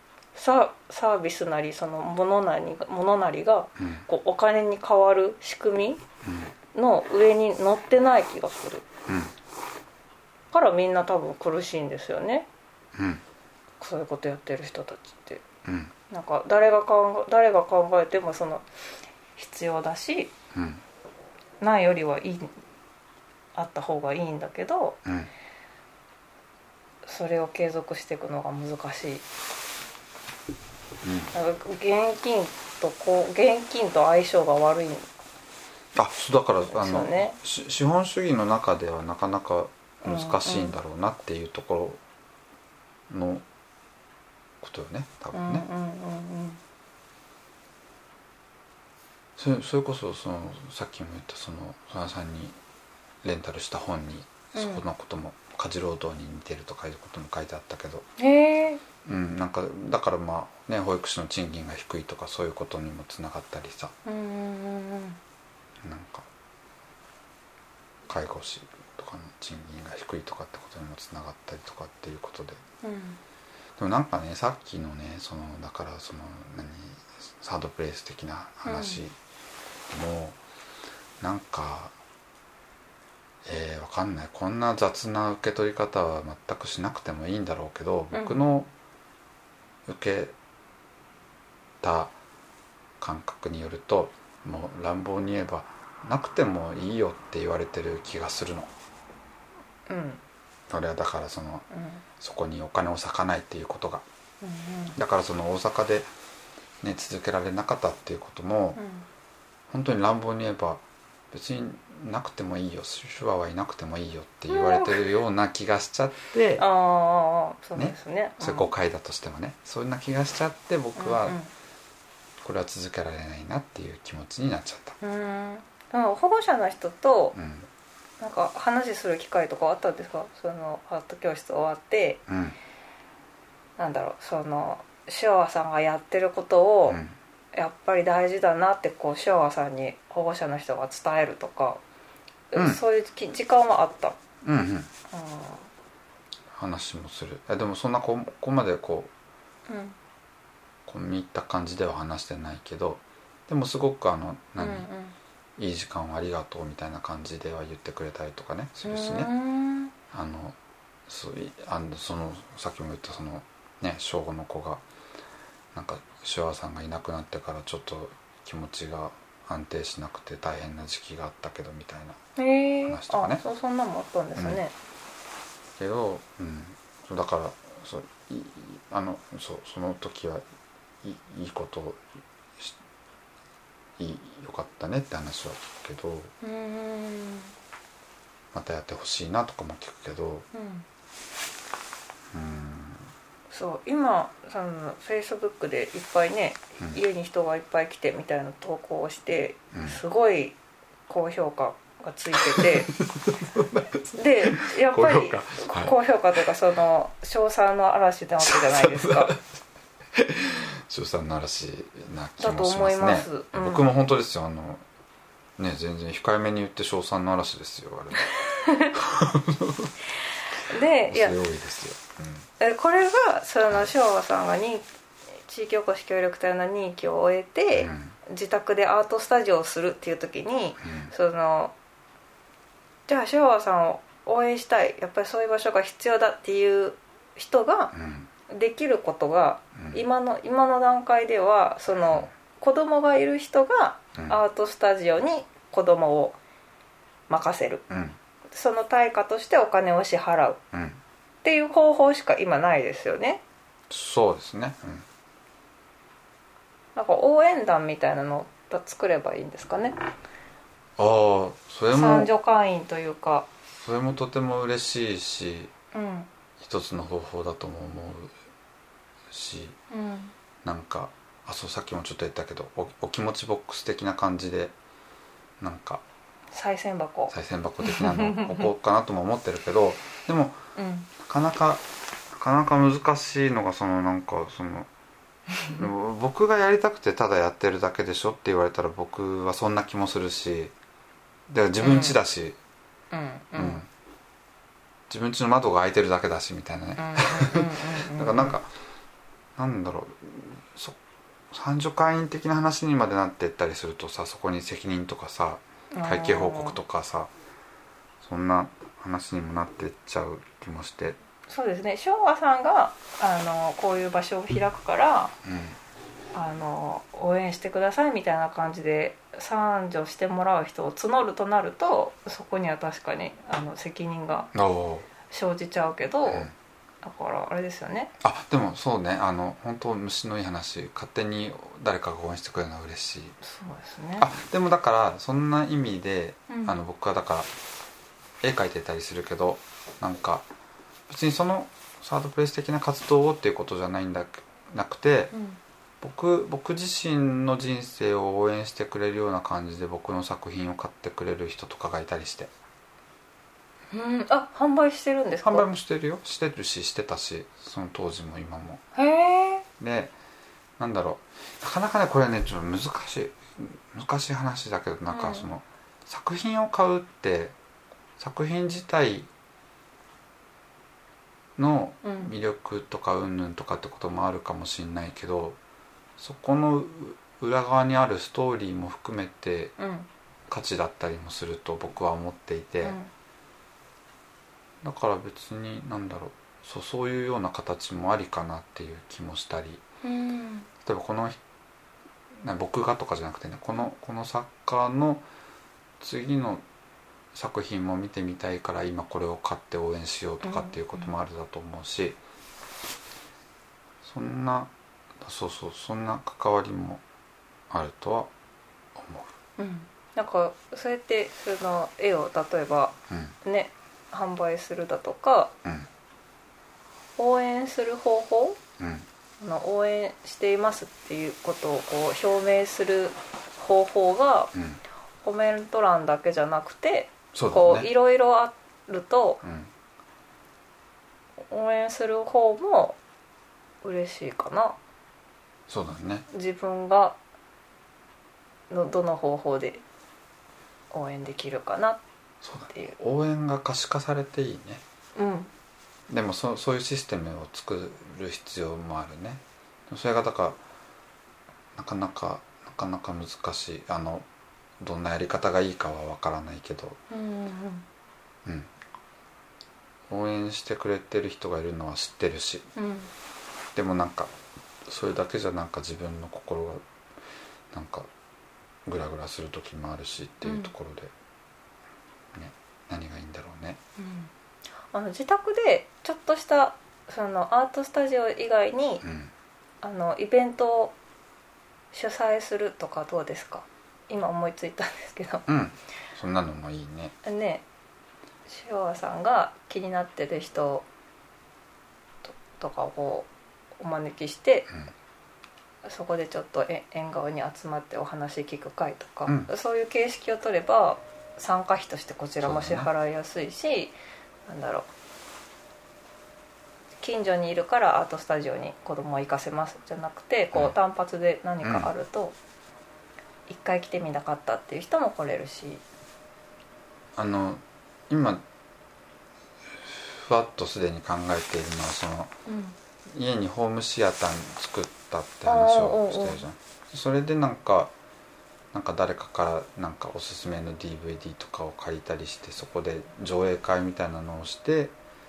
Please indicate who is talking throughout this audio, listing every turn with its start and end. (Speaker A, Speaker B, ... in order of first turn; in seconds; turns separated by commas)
Speaker A: 0.3-6.0, Speaker B: 3.8-4.1, Speaker B: 6.2-6.5, Speaker A: 6.7-8.8, Speaker A: 10.5-12.5, Speaker B: 12.9-13.2, Speaker A: 13.8-15.4, Speaker B: 15.7-15.9, Speaker A: 16.1-18.7, Speaker A: 19.4-20.3, Speaker B: 20.5-20.8, Speaker A: 21.6-22.5, Speaker A: 23.6-25.0, Speaker B: 25.1-25.3, Speaker A: 27.1-29.2, Speaker B: 31.0-31.3, Speaker A: 31.3-35.1, Speaker B: 36.0-42.0, Speaker A: 36.7-37.4, Speaker A: 40.0-40.8, Speaker B: 43.1-43.4, Speaker B: 44.6-45.7, Speaker A: 45.3-46.6, Speaker B: 49.4-52.6, Speaker B: 53.2-58.1, Speaker A: 54.5-54.8, Speaker A: 58.2-58.8, Speaker B: 59.0-63.9, Speaker A: 64.0-65.2, Speaker B: 65.8-66.3, Speaker B: 68.1-72.6, Speaker A: 72.8-73.2, Speaker B: 73.8-79.2, Speaker A: 78.7-79.0, Speaker B: 79.9-80.4, Speaker B: 81.2-81.9, Speaker B: 83.5-88.7, Speaker A: 88.1-88.4, Speaker B: 89.9-90.3, Speaker B: 91.8-92.1, Speaker B: 93.0-98.7, Speaker A: 99.9-100.2, Speaker B: 100.7-101.7, Speaker A: 101.7-102.0, Speaker B: 102.2-104.0, Speaker A: 104.4-105.0, Speaker B: 104.9-106.1, Speaker B: 106.8-108.8, Speaker A: 108.8-109.1, Speaker B: 109.7-116.7, Speaker A: 114.5-115.1, Speaker A: 116.6-118.7, Speaker B: 117.8-121.4, Speaker A: 121.0-121.5, Speaker B: 122.4-125.0, Speaker A: 125.0-127.4, Speaker B: 127.3-127.7, Speaker A: 128.2-132.2, Speaker B: 132.3-132.6, Speaker A: 133.8-137.0, Speaker B: 136.9-137.2, Speaker A: 137.5-141.8, Speaker A: 142.5-144.2, Speaker B: 142.6-142.8, Speaker B: 144.4-144.9, Speaker A: 145.1-145.6, Speaker B: 146.6-149.1, Speaker A: 149.7-150.0, Speaker B: 150.9-154.9, Speaker A: 154.6-155.2, Speaker B: 155.6-159.3, Speaker A: 158.8-159.9, Speaker B: 160.1-160.6, Speaker B: 161.1-164.8, Speaker B: 165.8-172.2, Speaker A: 172.4-174.7, Speaker B: 172.8-173.4, Speaker B: 174.4-174.6, Speaker B: 175.8-180.4, Speaker B: 181.0-182.0, Speaker B: 184.0-186.3, Speaker A: 186.4-187.5, Speaker B: 188.5-190.5, Speaker A: 190.5-190.9, Speaker B: 192.3-193.1, Speaker A: 193.5-200.6, Speaker B: 199.7-200.0, Speaker A: 201.1-202.9, Speaker B: 202.4-206.0, Speaker A: 204.1-209.3, Speaker B: 208.4-209.4, Speaker B: 210.2-214.8, Speaker A: 212.4-213.9, Speaker B: 215.6-219.9, Speaker A: 218.5-219.0, Speaker A: 220.7-221.4, Speaker B: 221.1-222.5, Speaker A: 222.6-224.8, Speaker A: 225.4-231.7, Speaker B: 227.7-228.1, Speaker B: 230.8-231.1, Speaker A: 233.1-237.9, Speaker B: 237.9-238.3, Speaker A: 238.5-246.4, Speaker B: 239.8-240.0, Speaker A: 247.3-247.8, Speaker B: 247.9-248.2, Speaker A: 248.5-250.6, Speaker B: 250.7-251.0, Speaker A: 251.4-253.4, Speaker B: 253.9-255.1, Speaker A: 256.9-260.0, Speaker B: 261.0-262.3, Speaker A: 261.9-263.5, Speaker B: 263.8-265.7, Speaker A: 265.9-266.3, Speaker B: 266.6-268.3, Speaker B: 269.3-269.8, Speaker A: 269.9-270.3, Speaker B: 270.6-274.7, Speaker B: 275.6-276.0, Speaker A: 276.5-278.7, Speaker B: 277.3-280.6, Speaker A: 280.8-281.1, Speaker B: 281.2-284.9, Speaker B: 285.7-290.7, Speaker B: 291.5-292.6, Speaker A: 291.8-292.2, Speaker A: 293.1-293.8, Speaker B: 293.6-293.9, Speaker B: 295.1-298.7, Speaker A: 297.0-298.6, Speaker B: 299.6-301.0, Speaker B: 301.5-307.3, Speaker A: 305.9-306.8, Speaker B: 308.2-311.2, Speaker A: 311.5-315.4, Speaker B: 315.4-315.8, Speaker A: 316.3-324.5, Speaker B: 324.5-325.1, Speaker A: 325.2-326.5, Speaker B: 326.3-326.5, Speaker A: 327.0-328.1, Speaker B: 328.2-333.4, Speaker A: 333.4-334.3, Speaker B: 334.2-337.5, Speaker A: 336.5-336.8, Speaker B: 338.4-340.5, Speaker B: 341.1-345.3, Speaker A: 345.3-345.6, Speaker B: 346.0-352.5, Speaker A: 353.9-355.7, Speaker B: 355.4-358.8, Speaker A: 358.9-359.7, Speaker B: 359.8-360.1, Speaker B: 360.8-367.6, Speaker A: 365.1-365.5, Speaker B: 368.2-369.3, Speaker B: 371.6-375.6, Speaker A: 372.0-372.3, Speaker B: 376.2-379.7, Speaker A: 379.8-380.1, Speaker B: 380.5-383.0, Speaker A: 382.8-383.1, Speaker B: 384.8-389.8, Speaker A: 390.0-390.7, Speaker B: 390.9-391.4, Speaker B: 392.4-395.2, Speaker B: 396.0-396.6, Speaker B: 397.3-402.2, Speaker A: 400.4-401.1, Speaker B: 404.0-407.0, Speaker B: 407.7-408.3, Speaker B: 409.0-409.3, Speaker A: 409.6-415.5, Speaker B: 413.1-413.4, Speaker A: 417.2-418.6, Speaker B: 418.8-419.1, Speaker A: 419.4-424.5, Speaker B: 424.6-424.8, Speaker A: 425.2-429.4, Speaker B: 427.3-427.9, Speaker B: 429.4-429.7, Speaker A: 431.5-433.0, Speaker A: 433.8-434.8, Speaker B: 435.7-436.3, Speaker A: 436.3-437.2, Speaker A: 438.7-439.8, Speaker A: 440.9-442.0, Speaker B: 442.4-444.8, Speaker A: 445.2-445.5, Speaker B: 446.1-450.6, Speaker B: 451.8-454.3, Speaker B: 454.8-457.0, Speaker A: 457.1-457.9, Speaker B: 460.1-462.7, Speaker A: 462.8-463.1, Speaker B: 463.8-464.3, Speaker B: 464.9-466.8, Speaker B: 467.7-468.1, Speaker B: 468.9-471.1, Speaker A: 470.4-470.7, Speaker B: 472.3-473.8, Speaker A: 474.0-474.3, Speaker A: 474.9-479.0, Speaker B: 479.0-479.3, Speaker A: 479.8-480.9, Speaker A: 481.9-485.5, Speaker B: 485.5-487.1, Speaker A: 487.2-487.6, Speaker A: 488.5-490.9, Speaker A: 492.2-494.7, Speaker A: 495.8-503.9, Speaker B: 502.4-502.9, Speaker A: 504.5-504.9, Speaker A: 507.0-512.4, Speaker B: 511.6-511.9, Speaker A: 513.5-515.8, Speaker B: 517.2-518.4, Speaker B: 519.8-522.3, Speaker A: 522.5-522.8, Speaker B: 523.1-527.9, Speaker A: 525.5-526.4, Speaker B: 528.7-534.9